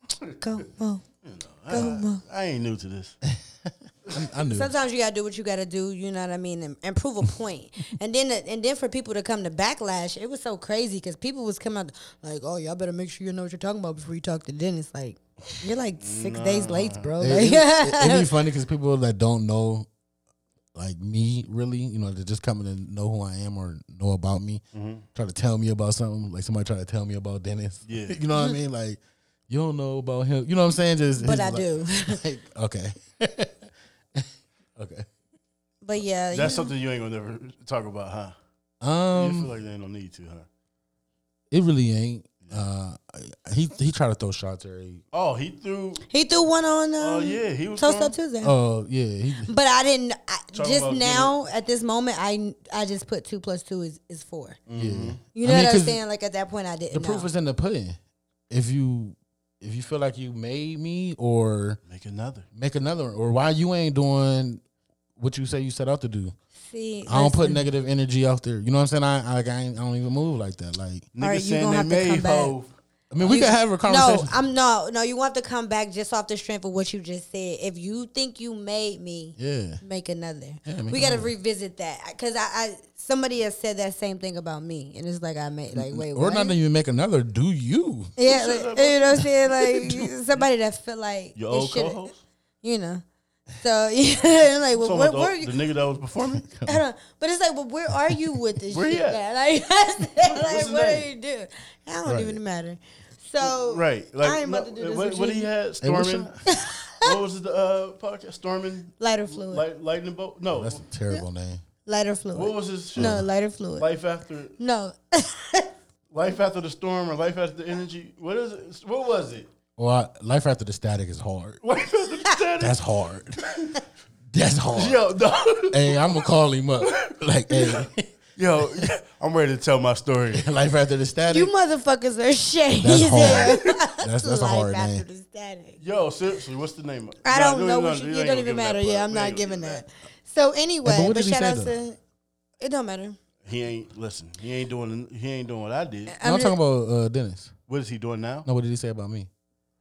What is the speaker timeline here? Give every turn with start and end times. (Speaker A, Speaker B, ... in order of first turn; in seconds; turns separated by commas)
Speaker A: 0.4-1.0, Speaker B: 1.2-3.2, Speaker A: 1.7-2.2, Speaker C: 3.3-4.8, Speaker A: 4.5-18.3, Speaker B: 16.0-17.2, Speaker C: 17.2-19.9, Speaker C: 20.7-24.6, Speaker B: 24.7-25.1, Speaker C: 25.1-35.0, Speaker B: 27.8-28.2, Speaker A: 31.2-32.2, Speaker A: 35.8-36.7, Speaker B: 36.3-38.3, Speaker C: 38.8-39.5, Speaker B: 39.1-40.5, Speaker C: 41.5-45.0, Speaker B: 45.1-46.0, Speaker A: 46.1-48.5, Speaker B: 47.0-48.1, Speaker C: 48.4-49.5, Speaker A: 49.5-54.6, Speaker B: 50.5-51.4, Speaker B: 54.7-55.2, Speaker C: 54.8-56.0, Speaker A: 55.3-57.3, Speaker C: 56.9-58.0, Speaker C: 58.5-61.8, Speaker B: 61.9-62.5, Speaker C: 62.5-64.6, Speaker C: 65.2-66.3, Speaker A: 66.7-67.6, Speaker C: 67.0-71.1, Speaker B: 71.1-72.7, Speaker A: 71.2-72.5, Speaker C: 73.1-74.3, Speaker A: 73.2-86.5, Speaker C: 79.4-79.8, Speaker C: 80.6-81.3, Speaker C: 85.7-88.2, Speaker A: 88.2-92.1, Speaker B: 88.2-90.1, Speaker B: 91.4-92.2, Speaker A: 92.6-93.0, Speaker A: 93.6-95.5, Speaker B: 94.8-96.5, Speaker C: 96.3-96.8, Speaker A: 96.7-105.5, Speaker B: 98.7-99.2, Speaker B: 100.2-101.1, Speaker C: 102.0-102.4, Speaker B: 103.4-106.3, Speaker C: 105.8-106.4, Speaker A: 106.5-107.1, Speaker B: 107.0-110.8, Speaker A: 109.0-109.6, Speaker C: 110.5-111.6, Speaker A: 111.9-113.9, Speaker B: 112.3-114.6, Speaker C: 113.0-113.3, Speaker A: 114.6-115.7, Speaker B: 116.1-119.5, Speaker C: 119.8-121.6, Speaker B: 121.6-122.8, Speaker C: 122.6-123.4, Speaker C: 124.3-125.0, Speaker B: 124.7-126.2, Speaker C: 125.7-128.9, Speaker B: 126.8-130.5, Speaker C: 130.3-131.5, Speaker A: 131.3-135.8, Speaker C: 132.8-135.0, Speaker B: 133.2-133.7, Speaker B: 135.8-139.8, Speaker A: 137.2-142.0, Speaker C: 140.8-141.8, Speaker A: 142.6-143.2, Speaker B: 143.4-146.2, Speaker A: 146.1-146.6, Speaker C: 146.2-147.5, Speaker B: 147.7-148.5, Speaker C: 148.4-149.3